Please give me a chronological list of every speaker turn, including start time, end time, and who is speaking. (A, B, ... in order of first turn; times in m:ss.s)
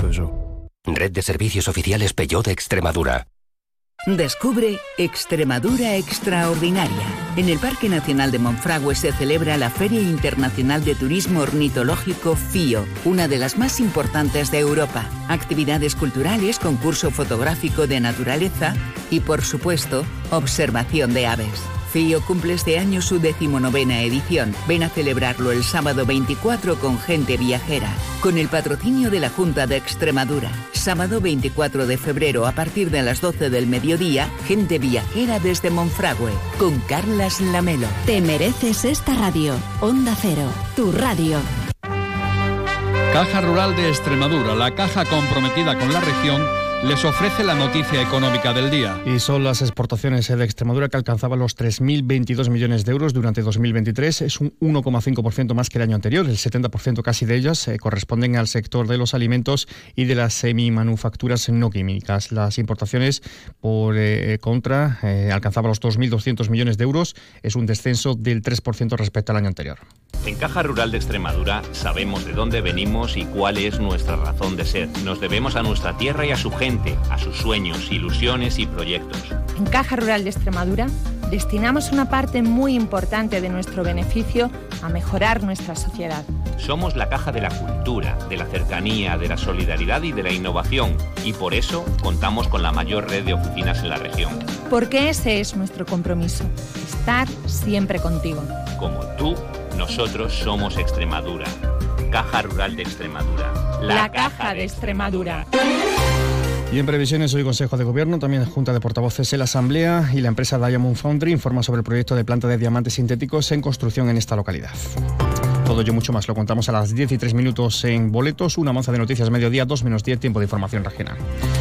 0:00.9-0:03.2 A
0:04.1-0:38.0 B
0:38.1-0:41.4 C
0:43.1-0:48.9 D
0:49.0-1:09.8 E
1:10.2-1:19.3 F
1:19.6-1:26.3 G
1:26.6-1:34.4 F
1:34.7-1:38.5 G
1:38.8-1:41.5 F
1:42.1-1:45.4 F
1:43.8-1:45.5 G
1:46.7-1:55.0 E
1:55.6-2:01.2 E